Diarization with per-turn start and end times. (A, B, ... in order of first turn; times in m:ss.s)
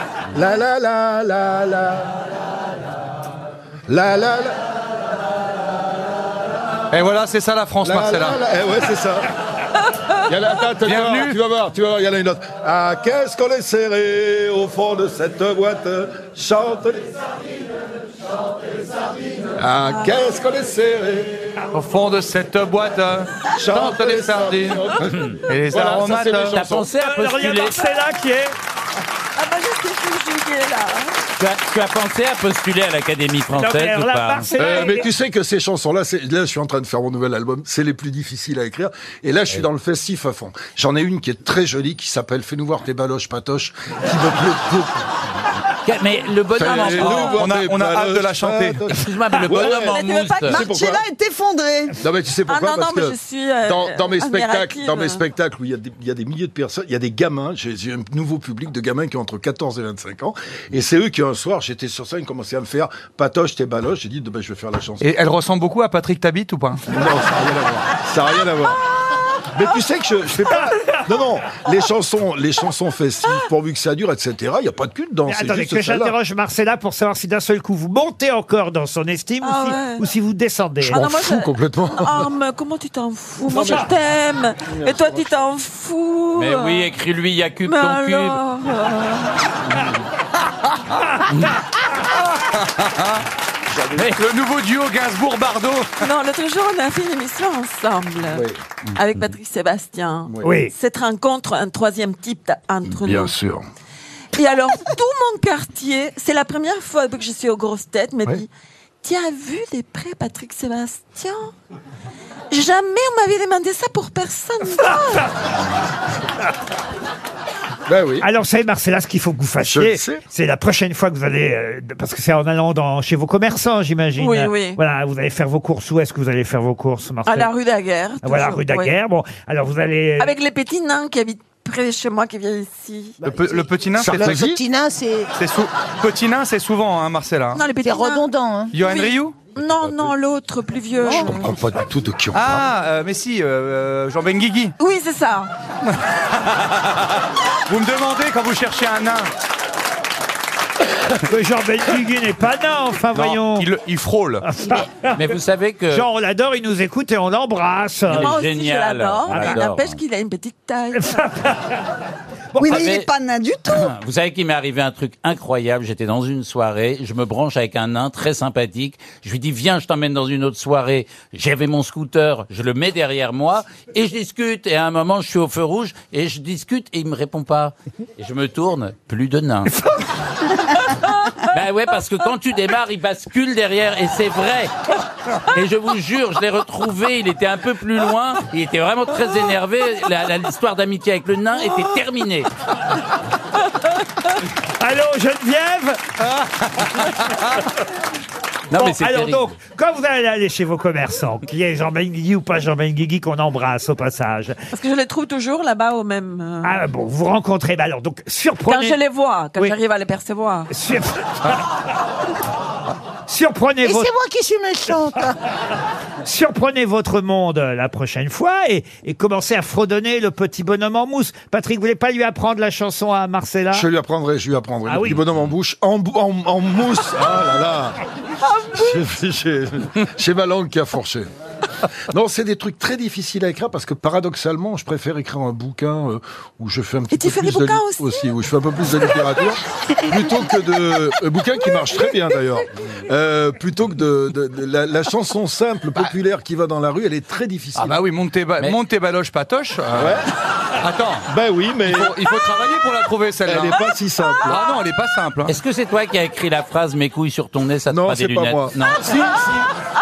0:00.3-0:02.2 A
0:03.9-0:04.6 A
0:06.9-0:08.4 B
0:07.8-0:09.3 A
0:09.8-0:10.2 C
0:10.2-0:17.1 A
0:10.8-0:11.4 B
0:19.6-0:21.4 A
0:19.8-0:20.2 C
0:21.7-0:24.9 B
0:23.5-0:26.9 A
0:25.1-0:25.4 D
0:25.5-0:26.6 B
0:26.4-0:27.9 D
0:27.0-0:28.5 E
0:29.4-0:31.2 C
0:31.4-0:34.5 D
0:33.5-0:35.1 E
0:34.6-0:45.0 A
0:45.8-0:47.3 D
0:46.6-0:51.0 A
0:46.6-0:47.4 C
0:46.8-0:48.9 B
0:48.9-0:50.6 D
0:49.5-0:50.6 C
0:50.5-0:52.0 F
0:52.0-1:05.1 A
0:52.5-0:55.2 C
1:05.0-1:06.8 B
1:06.9-1:08.8 A
1:09.5-1:16.1 A
1:15.3-1:21.0 E
1:19.4-1:20.0 C
1:20.8-1:26.9 C
1:20.9-1:22.3 A
1:23.4-1:23.9 A
1:24.7-1:25.4 A
1:26.3-1:28.4 D
1:27.6-1:29.6 C
1:31.2-1:31.6 D
1:32.4-1:33.2 B
1:33.9-1:34.2 D
1:34.0-1:36.1 B
1:36.0-1:43.3 C
1:38.3-1:38.6 A
1:40.3-1:40.5 A
1:40.4-1:40.7 E
1:42.9-1:43.7 A
1:44.4-1:48.5 C
1:49.0-1:51.5 C
1:52.5-1:55.3 C
1:57.9-1:58.3 A
1:58.2-2:07.5 E
1:59.6-2:00.2 A
2:04.2-2:04.8 C
2:07.2-2:08.9 C
2:08.2-2:10.3 E
2:10.2-2:13.2 C
2:13.2-2:15.3 F
2:13.2-2:14.4 B
2:14.0-2:14.6 A
2:15.4-2:17.7 B
2:17.5-2:21.4 C
2:17.8-2:18.8 F
2:18.7-2:19.5 B
2:21.2-2:22.6 A
2:22.3-2:24.7 B
2:24.8-2:25.5 C
2:25.9-2:27.0 B
2:27.7-2:29.3 B
2:31.2-2:33.7 E
2:33.1-2:34.4 B
2:34.4-2:35.3 E
2:35.0-2:36.1 D
2:35.9-2:38.3 E
2:38.1-2:40.0 D
2:38.2-2:41.2 C
2:39.3-2:39.6 E
2:41.0-2:41.7 E
2:42.6-2:43.1 D
2:42.6-2:43.9 F
2:43.7-2:59.7 D
3:01.5-3:04.7 D
3:05.3-3:12.5 D
3:14.6-3:17.6 E
3:16.6-3:17.5 B
3:18.7-3:19.5 D
3:18.7-3:24.6 E
3:24.7-3:26.8 C
3:26.6-3:29.0 E
3:28.6-3:30.7 C
3:30.7-3:31.6 E
3:33.2-3:34.1 E
3:33.8-3:35.4 F
3:36.2-3:43.9 E
3:43.7-3:48.0 A
3:44.9-3:45.2 E
3:48.4-3:49.0 C
3:48.7-3:51.3 A
3:52.1-4:08.0 A
3:57.1-3:58.2 C
4:07.8-4:10.2 B
4:10.0-4:10.3 A
4:10.8-4:11.3 B
4:11.3-4:12.2 A
4:11.8-4:13.8 B
4:13.4-4:14.6 A
4:14.4-4:15.6 B
4:15.4-4:19.2 D
4:17.9-4:19.7 A